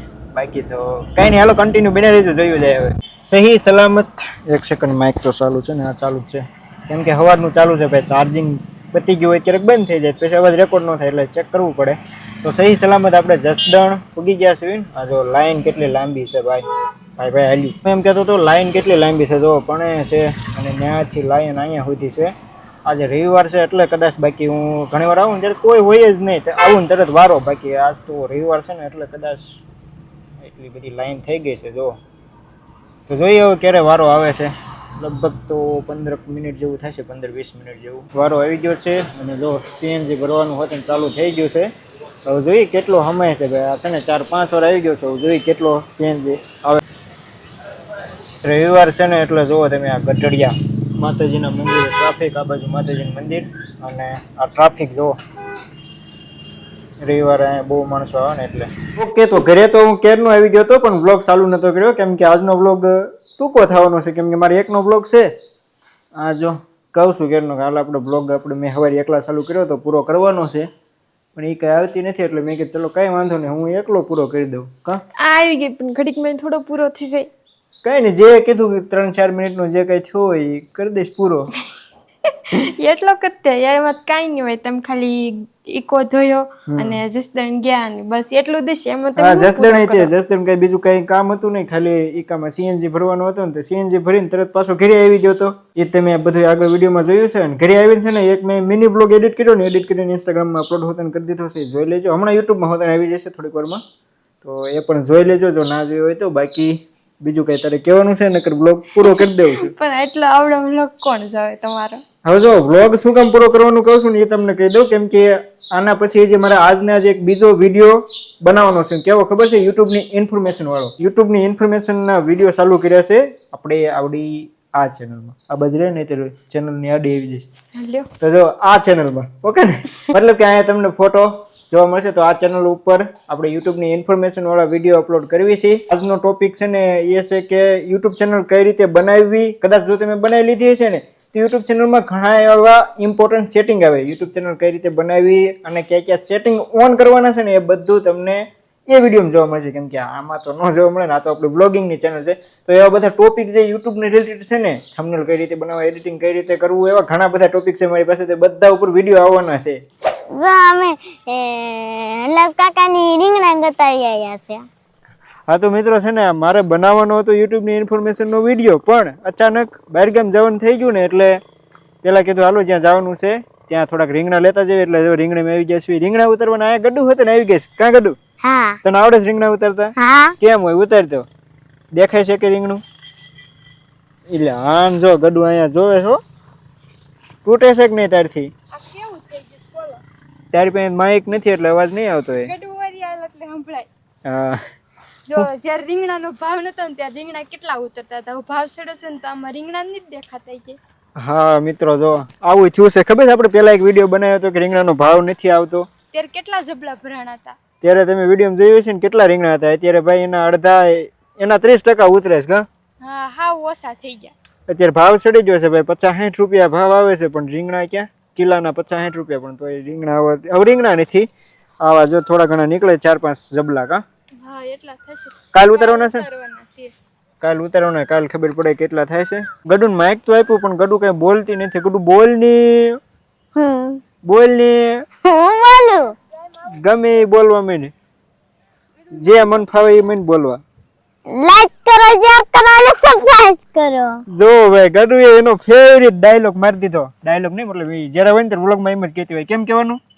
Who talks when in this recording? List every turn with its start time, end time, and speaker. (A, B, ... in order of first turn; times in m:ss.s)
0:00.3-0:16.6 A
0:17.2-0:22.3 A
0:22.9-0:29.6 A
0:30.4-0:32.0 A
0:33.1-0:41.7 A
0:42.3-0:46.8 A
0:48.4-0:55.2 A
0:57.0-1:05.3 A
1:06.2-1:10.7 A
1:11.4-1:15.0 A
1:15.2-1:17.3 B
1:17.8-1:21.5 A
1:22.3-1:30.1 B
1:26.7-1:27.0 A
1:29.2-1:43.8 A
1:44.4-1:49.7 A
1:49.0-1:52.0 B
1:52.2-2:07.5 A
2:07.7-2:08.1 B
2:08.2-2:39.8 A
2:40.4-2:44.6 C
2:45.5-2:51.4 A
2:52.0-2:58.2 A
2:58.4-2:58.8 C
2:58.8-3:01.3 A
3:00.0-3:00.4 C
3:02.0-3:02.8 A
3:04.3-3:06.2 A
3:07.4-3:08.5 A
3:08.7-3:10.0 B
3:10.5-3:12.5 A
3:12.4-3:13.9 B
3:14.3-3:14.6 A
3:15.3-3:20.8 B
3:21.2-3:25.9 A
3:26.1-3:27.6 B
3:27.8-3:32.6 A
3:33.0-3:34.3 B
3:34.7-3:41.3 A
3:41.8-3:44.0 A
3:44.4-3:46.9 B
3:45.5-3:46.3 A
3:47.4-3:53.0 A
3:53.6-3:54.0 C
3:54.3-3:55.0 A
3:55.2-3:56.2 C
3:56.8-3:57.9 A
3:59.1-4:00.6 A
4:01.3-4:04.2 C
4:04.3-4:10.0 A